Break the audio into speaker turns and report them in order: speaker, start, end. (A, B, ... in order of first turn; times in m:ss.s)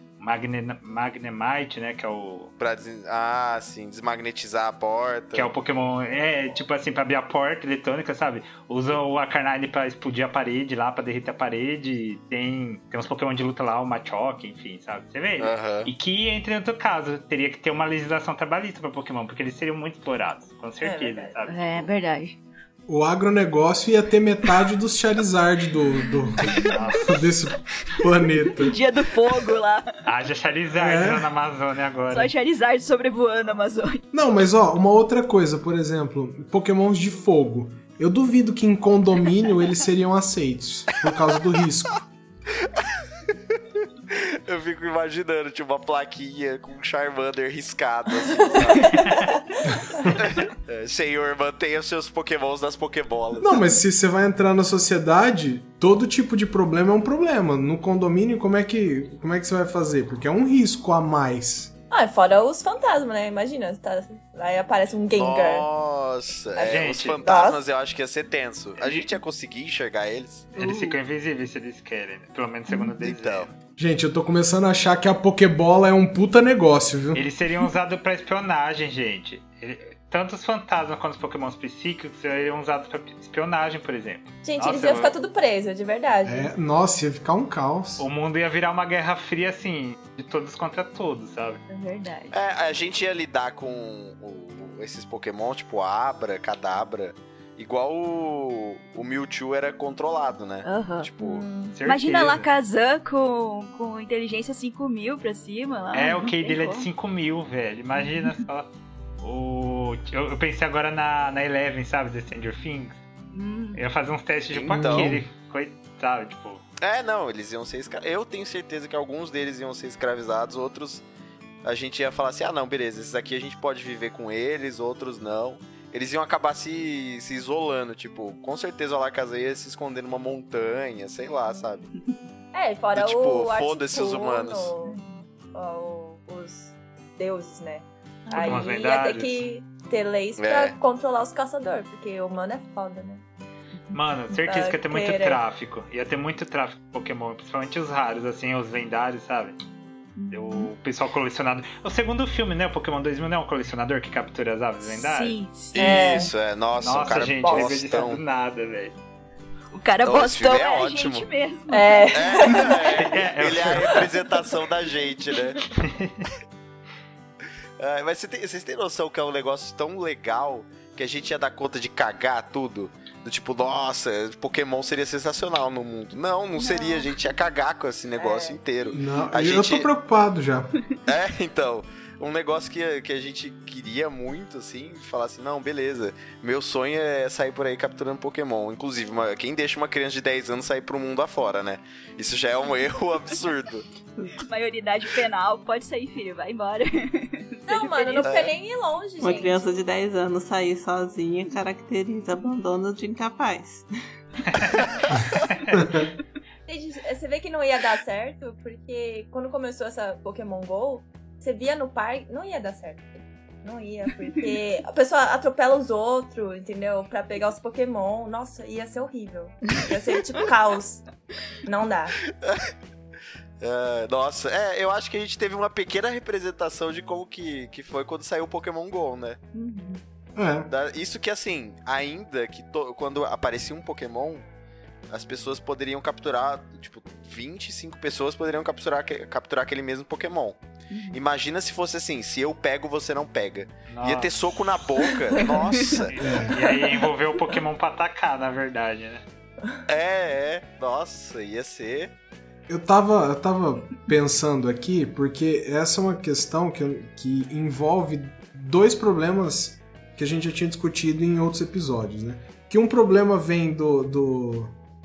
0:00.2-0:02.5 A
0:02.6-0:05.5 B
0:05.3-0:21.9 A
0:15.4-0:15.9 B
0:20.8-0:21.3 C
0:21.5-0:22.4 D
0:22.9-0:28.9 E
0:26.6-0:27.0 D
0:26.7-0:27.2 A
0:28.6-0:30.0 D
0:30.1-0:32.3 A
0:30.7-0:31.3 E
0:32.1-0:34.0 D
0:34.1-0:42.0 E
0:42.6-0:49.3 B
0:49.7-0:50.2 E
0:50.1-0:53.6 B
0:53.4-1:01.7 E
1:01.9-1:05.7 C
1:05.1-1:10.5 B
1:06.6-1:07.6 C
1:06.7-1:07.2 A
1:08.8-1:09.1 A
1:10.6-1:11.0 D
1:10.6-1:13.5 A
1:13.0-1:13.5 B
1:13.8-1:17.2 E
1:17.1-1:25.1 A
1:24.4-1:26.5 C
1:26.2-1:28.1 E
1:28.0-1:31.6 A
1:31.7-1:32.3 D
1:32.3-1:41.4 B
1:40.6-1:41.1 D
1:41.2-1:41.8 C
1:41.8-1:42.5 A
1:41.8-1:46.9 D
1:45.9-1:48.7 A
1:49.2-1:53.0 A
1:53.3-1:53.8 D
1:53.8-1:56.6 A
1:54.5-1:55.2 B
1:54.7-1:55.2 E
1:56.8-2:01.1 B
2:01.6-2:11.9 B
2:12.5-2:15.0 C
2:13.0-2:14.7 B
2:15.5-2:23.2 C
2:18.3-2:18.7 D
2:18.4-2:19.4 A
2:20.4-2:20.8 B
2:23.9-2:29.6 A
2:24.4-2:25.4 C
2:30.2-2:30.7 D
2:30.3-2:35.4 A
2:34.8-2:36.3 D
2:35.7-2:38.2 B
2:35.8-2:36.3 C
2:36.8-2:39.0 A
2:37.4-2:37.7 C
2:39.7-2:42.8 D
2:40.0-2:41.3 B
2:41.7-2:42.8 C
2:42.1-2:45.6 B
2:43.0-2:44.1 A
2:45.7-2:46.3 A
2:47.8-2:59.9 B
2:56.6-2:57.1 D
2:58.2-2:58.6 C
2:58.9-3:00.8 E
3:01.1-3:13.9 B
3:14.4-3:18.4 D
3:17.7-3:19.8 C
3:18.2-3:18.5 B
3:19.2-3:23.9 F
3:24.5-3:24.8 A
3:25.6-3:25.9 A
3:25.8-3:26.1 E
3:26.7-3:41.1 C
3:41.6-3:42.2 C
3:42.4-3:42.7 B
3:43.6-3:49.4 B
3:49.5-3:50.0 D
3:50.4-3:50.7 E
3:50.7-3:54.4 B
3:55.1-4:00.6 B
4:00.9-4:01.2 D
4:01.1-4:06.1 B
4:03.9-4:04.9 A
4:06.1-4:09.2 A
4:06.2-4:06.6 E
4:09.9-4:12.1 B
4:12.7-4:24.7 E